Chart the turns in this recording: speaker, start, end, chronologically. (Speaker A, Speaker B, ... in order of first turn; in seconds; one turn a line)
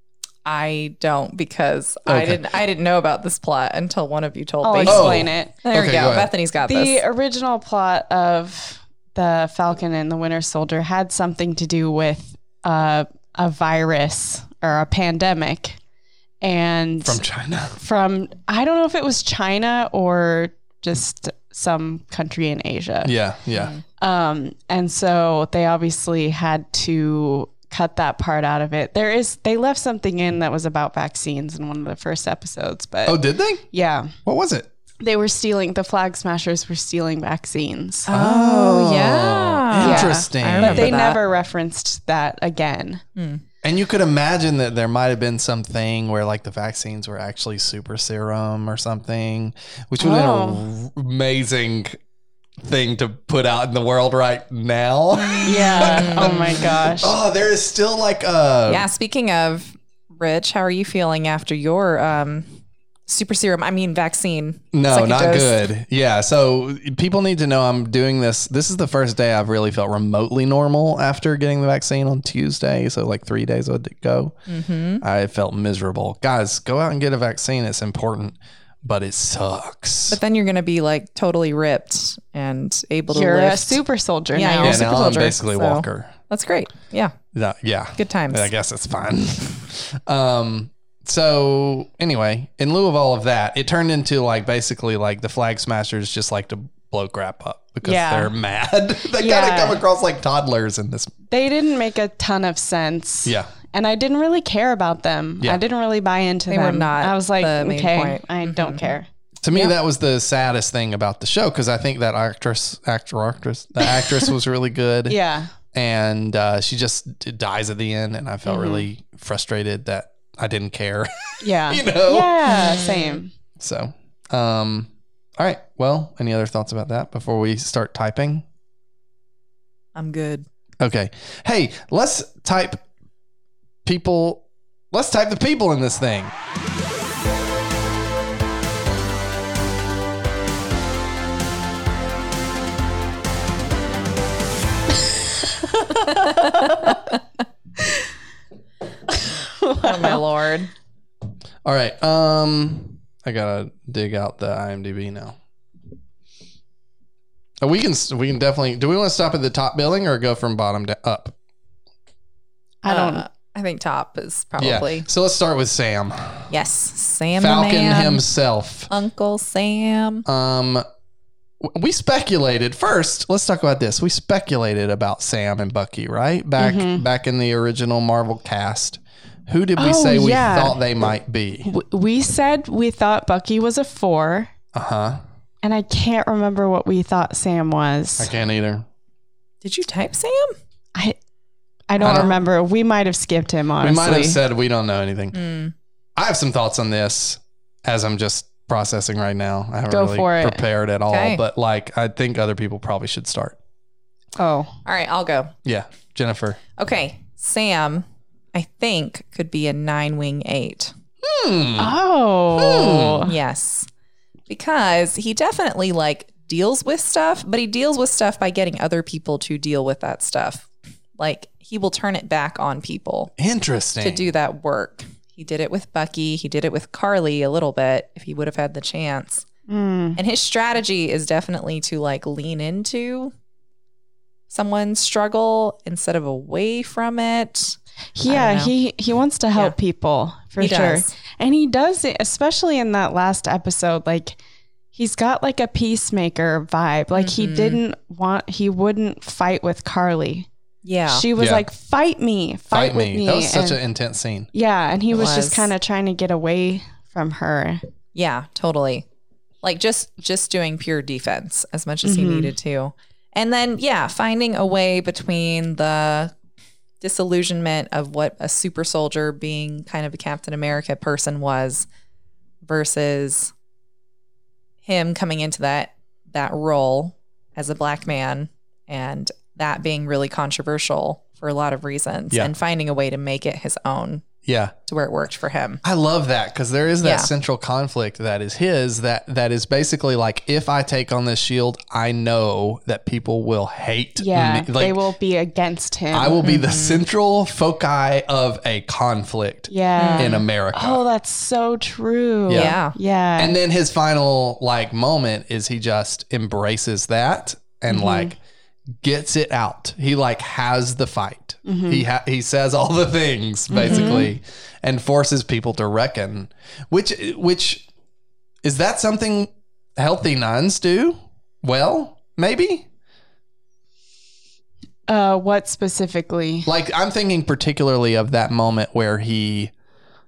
Speaker A: 0.4-7.0
Speaker B: 2.1-2.4
Speaker C: 4.6-5.5
Speaker B: 4.8-6.3
Speaker C: 6.6-15.8
Speaker C: 16.4-17.2
Speaker B: 17.0-17.8
Speaker C: 17.8-23.1
Speaker B: 23.0-23.7
Speaker C: 24.0-34.1
Speaker B: 33.0-33.6
Speaker B: 34.2-34.7
Speaker C: 35.0-38.1
Speaker A: 38.1-41.2
Speaker B: 38.1-41.0
Speaker C: 39.8-43.0
Speaker A: 43.1-43.4
Speaker B: 43.6-52.0
Speaker C: 50.0-50.6
Speaker B: 52.6-58.9
Speaker A: 55.2-56.8
Speaker C: 55.5-57.1
Speaker A: 58.7-65.6
Speaker B: 64.7-74.3
Speaker A: 74.5-75.0
Speaker B: 75.0-80.2
Speaker A: 80.1-83.8
Speaker C: 83.1-84.8
Speaker A: 84.3-87.2
Speaker B: 84.6-86.1
Speaker B: 87.3-101.1
Speaker A: 88.0-88.5
Speaker C: 97.8-98.3
Speaker C: 99.2-99.8
Speaker C: 101.3-109.7
Speaker B: 103.2-103.5
Speaker A: 106.5-108.9
Speaker B: 109.4-115.2
Speaker C: 115.1-115.5
Speaker B: 115.7-122.3
Speaker C: 118.5-118.9
Speaker C: 121.4-123.3
Speaker A: 122.5-123.2
Speaker B: 123.6-128.4
Speaker A: 129.9-130.5
Speaker B: 130.8-132.8
Speaker B: 133.8-136.3
Speaker C: 145.8-146.8
Speaker A: 146.5-147.0
Speaker C: 149.6-150.2
Speaker A: 149.8-150.7
Speaker B: 151.6-155.4
Speaker B: 157.6-161.3
Speaker C: 162.8-163.2
Speaker A: 162.9-165.1
Speaker B: 164.6-166.5
Speaker A: 166.5-168.2
Speaker B: 167.4-168.9
Speaker A: 168.9-170.2
Speaker B: 170.2-170.8
Speaker B: 171.6-181.7
Speaker C: 176.6-177.0
Speaker C: 179.8-180.8
Speaker C: 181.6-184.5
Speaker B: 184.7-185.2
Speaker C: 185.6-188.3
Speaker B: 188.2-188.9
Speaker A: 189.6-190.6
Speaker C: 191.9-194.4
Speaker B: 192.0-192.4
Speaker B: 193.8-195.4
Speaker A: 195.3-195.7
Speaker B: 196.2-203.6
Speaker C: 199.9-200.6
Speaker A: 201.1-201.4
Speaker C: 204.4-204.8
Speaker A: 204.8-205.5
Speaker B: 205.6-206.6
Speaker A: 206.8-210.9
Speaker B: 211.2-211.9
Speaker C: 211.8-213.3
Speaker B: 212.5-213.3
Speaker A: 213.2-213.9
Speaker A: 214.5-223.3
Speaker B: 223.4-224.3
Speaker A: 224.0-229.4
Speaker C: 229.7-230.2
Speaker A: 230.2-233.3
Speaker A: 234.5-238.7
Speaker C: 238.2-244.4
Speaker A: 240.6-241.1
Speaker C: 244.9-250.5
Speaker A: 247.1-247.8
Speaker A: 250.8-251.3
Speaker C: 251.1-253.8
Speaker B: 251.4-251.7
Speaker B: 252.7-254.5
Speaker C: 254.5-257.8
Speaker A: 255.1-255.7
Speaker A: 258.1-259.1
Speaker A: 259.6-266.3
Speaker C: 262.0-262.5
Speaker A: 267.0-271.9
Speaker A: 272.6-273.5
Speaker A: 274.9-284.2
Speaker B: 284.4-284.7
Speaker A: 284.9-285.8
Speaker B: 285.8-295.0
Speaker A: 287.0-287.3
Speaker C: 294.2-296.5
Speaker B: 296.1-301.0
Speaker A: 296.4-297.0
Speaker C: 299.7-303.5
Speaker A: 300.0-300.4
Speaker B: 302.5-302.8
Speaker A: 302.5-303.0
Speaker B: 303.4-308.4
Speaker C: 307.9-308.3
Speaker B: 309.0-317.8
Speaker C: 311.6-312.0
Speaker A: 313.7-314.3
Speaker C: 313.8-314.3
Speaker B: 318.6-322.9
Speaker C: 325.1-326.7
Speaker B: 326.6-329.7